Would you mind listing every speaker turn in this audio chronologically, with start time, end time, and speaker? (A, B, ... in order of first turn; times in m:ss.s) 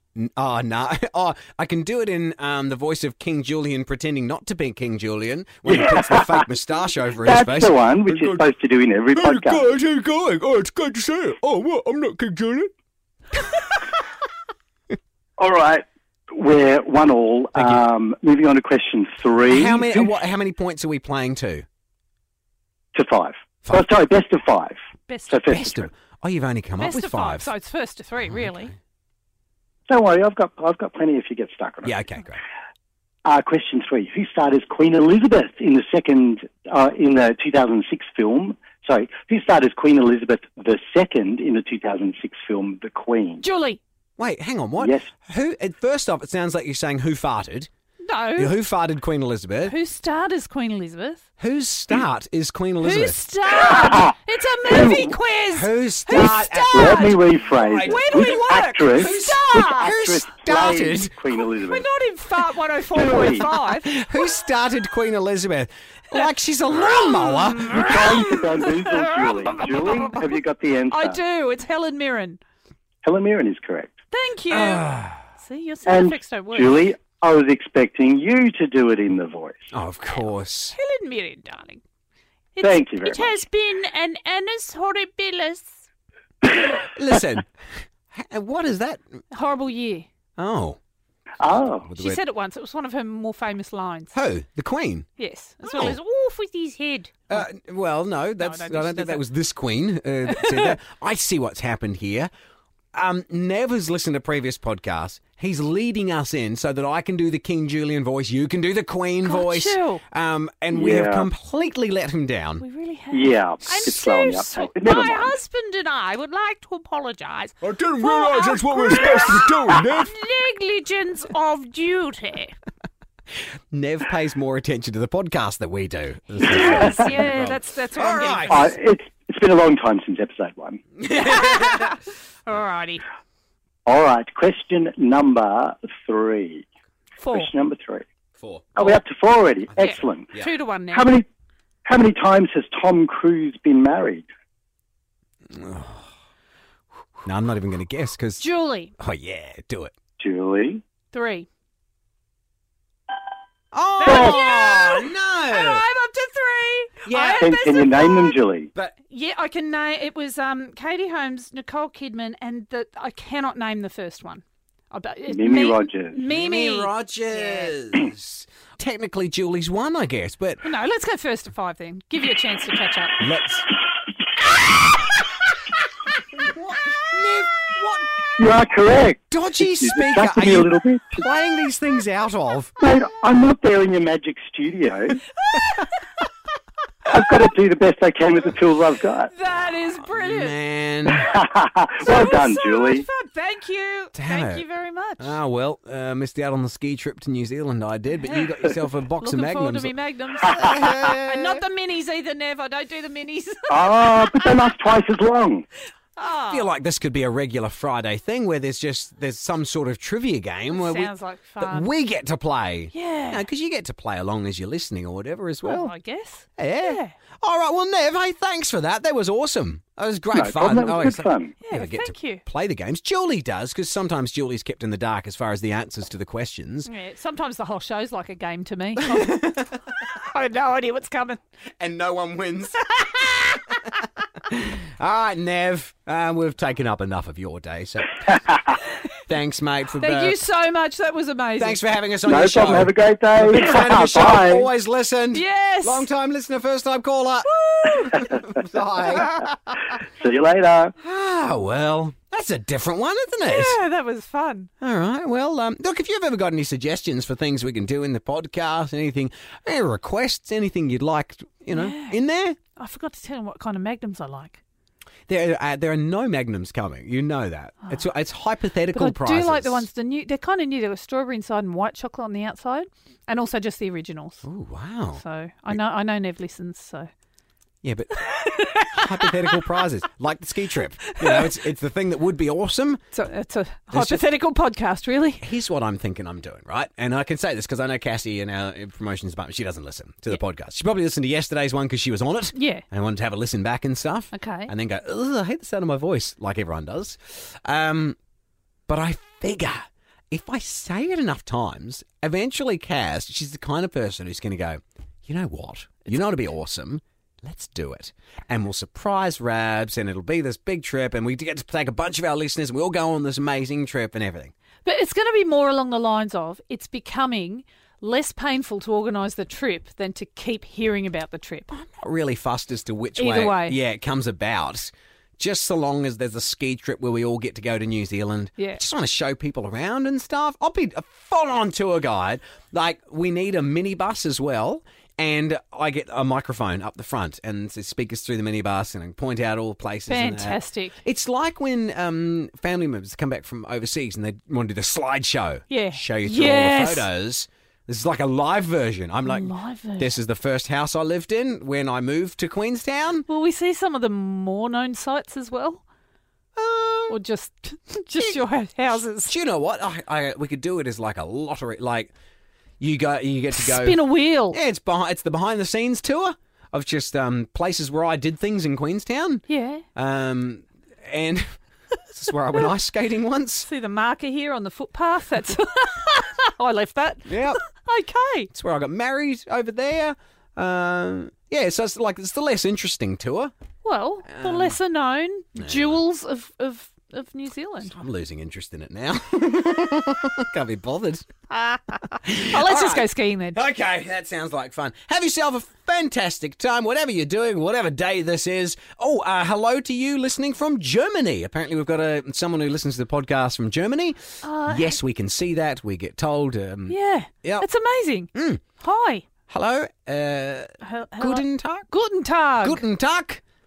0:00.2-0:08.4 A
0:05.7-0:06.4 B
0:07.2-0:09.8 B
0:09.2-0:12.7 A
0:15.4-0:20.1 B
0:17.5-0:17.8 A
0:19.5-0:21.6 A
0:22.9-0:24.8 B
0:25.1-0:25.4 C
0:25.3-0:25.9 B
0:25.5-0:27.5 A
0:26.8-0:28.7 C
0:28.3-0:28.7 A
0:29.9-0:32.0 B
0:31.8-0:32.4 A
0:33.2-0:43.4 B
0:43.4-0:43.8 C
0:44.2-0:47.7 A
0:44.8-0:45.1 B
0:48.0-0:48.6 C
0:48.4-0:49.8 A
0:49.6-0:51.2 C
0:51.4-0:53.2 A
0:52.8-0:57.2 C
0:53.7-0:54.1 B
0:54.6-0:55.2 B
0:55.5-1:01.1 A
0:56.1-1:01.9 B
0:57.8-0:59.9 C
1:01.3-1:04.0 C
1:02.9-1:03.5 B
1:03.4-1:08.5 A
1:06.1-1:10.4 C
1:07.7-1:11.2 B
1:10.9-1:12.4 C
1:13.0-1:13.9 B
1:14.1-1:16.8 C
1:14.5-1:15.2 A
1:15.9-1:19.7 B
1:19.7-1:20.8 A
1:20.1-1:21.8 C
1:22.6-1:25.8 C
1:22.6-1:23.4 B
1:26.6-1:27.5 A
1:28.1-1:29.0 A
1:29.3-1:30.1 C
1:30.4-1:30.8 A
1:31.4-1:31.9 B
1:31.8-1:32.2 A
1:32.0-1:34.1 C
1:34.1-1:35.1 A
1:35.2-1:37.5 C
1:35.6-1:36.0 A
1:37.3-1:42.3 A
1:38.4-1:39.2 C
1:40.3-1:40.8 C
1:42.9-1:52.7 A
1:49.2-1:50.0 C
1:50.7-1:51.3 B
1:52.6-2:02.5 C
1:53.1-1:55.4 B
1:57.6-2:00.1 A
2:03.7-2:08.7 A
2:06.4-2:08.8 C
2:08.5-2:10.8 B
2:11.0-2:12.0 A
2:11.1-2:13.0 C
2:13.9-2:16.7 B
2:17.2-2:17.5 C
2:17.3-2:18.0 B
2:18.4-2:18.7 A
2:18.8-2:20.4 B
2:19.8-2:20.5 A
2:19.8-2:21.1 C
2:20.9-2:21.3 B
2:21.9-2:24.3 B
2:25.5-2:26.1 A
2:27.2-2:28.5 A
2:28.4-2:28.9 C
2:29.0-2:29.9 A
2:30.2-2:30.8 B
2:31.1-2:31.5 C
2:33.7-2:35.8 A
2:34.0-2:38.4 C
2:34.0-2:34.4 B
2:37.0-2:37.5 A
2:37.4-2:38.7 B
2:39.1-2:47.8 C
2:45.3-2:46.2 B
2:46.3-2:50.6 A
2:50.6-2:53.2 C
2:53.2-2:53.7 A
2:56.2-2:58.2 A
2:58.4-3:01.2 B
2:59.3-3:02.7 A
3:02.8-3:05.2 B
3:05.4-3:06.0 C
3:07.1-3:09.3 B
3:09.3-3:10.6 C
3:10.1-3:11.3 A
3:11.1-3:13.1 B
3:12.0-3:15.4 C
3:14.1-3:14.6 A
3:15.2-3:21.6 A
3:19.2-3:24.7 C
3:20.5-3:20.8 B
3:23.7-3:25.7 B
3:26.2-3:26.7 C
3:26.5-3:35.9 A
3:30.7-3:31.9 C
3:32.9-3:33.4 C
3:35.6-3:37.2 C
3:36.6-3:46.9 A
3:40.3-3:41.6 B
3:41.6-3:42.4 C
3:46.9-3:51.4 C
3:49.1-3:49.7 A
3:51.8-3:58.5 A
3:59.3-4:00.4 A
4:00.0-4:01.8 C
4:01.6-4:09.9 A
4:02.2-4:04.7 B
4:05.3-4:06.1 C
4:07.4-4:08.5 C
4:10.2-4:11.0 B
4:11.0-4:13.8 A
4:13.4-4:14.7 C
4:14.8-4:22.6 A
4:21.7-4:22.2 C
4:22.8-4:24.6 C
4:25.3-4:29.9 A
4:28.9-4:34.4 C
4:34.4-4:35.8 A
4:35.2-4:37.1 C
4:37.8-4:43.0 A
4:38.2-4:39.6 C
4:41.1-4:41.5 C
4:43.1-4:45.5 C
4:43.9-4:44.2 A
4:45.4-4:58.2 A
4:52.6-4:52.8 C
4:54.3-4:54.7 C
4:58.9-5:14.5 A
5:14.8-5:21.7 C
5:21.7-5:53.3 A
5:23.2-5:23.8 C
5:40.1-5:41.0 C
5:45.7-5:47.1 C
5:49.3-5:50.1 C
5:53.3-5:55.8 C
5:56.6-5:57.2 A
5:57.1-5:59.3 C
5:58.2-5:58.4 A
5:59.3-6:02.1 A
6:02.8-6:09.4 A
6:03.5-6:04.6 C
6:09.5-6:09.8 C
6:10.0-6:11.5 A
6:12.1-6:13.7 A
6:13.6-6:18.5 C
6:17.3-6:17.6 A
6:18.5-6:23.5 A
6:23.8-6:28.0 C
6:24.3-6:24.8 A
6:25.6-6:26.0 A
6:27.8-6:31.3 A
6:32.2-6:47.7 A
6:32.3-6:33.6 C
6:44.4-6:45.0 C
6:46.9-6:49.3 C
6:48.3-6:48.6 A
6:49.5-6:51.9 A
6:50.8-6:52.8 C
6:52.6-6:53.4 A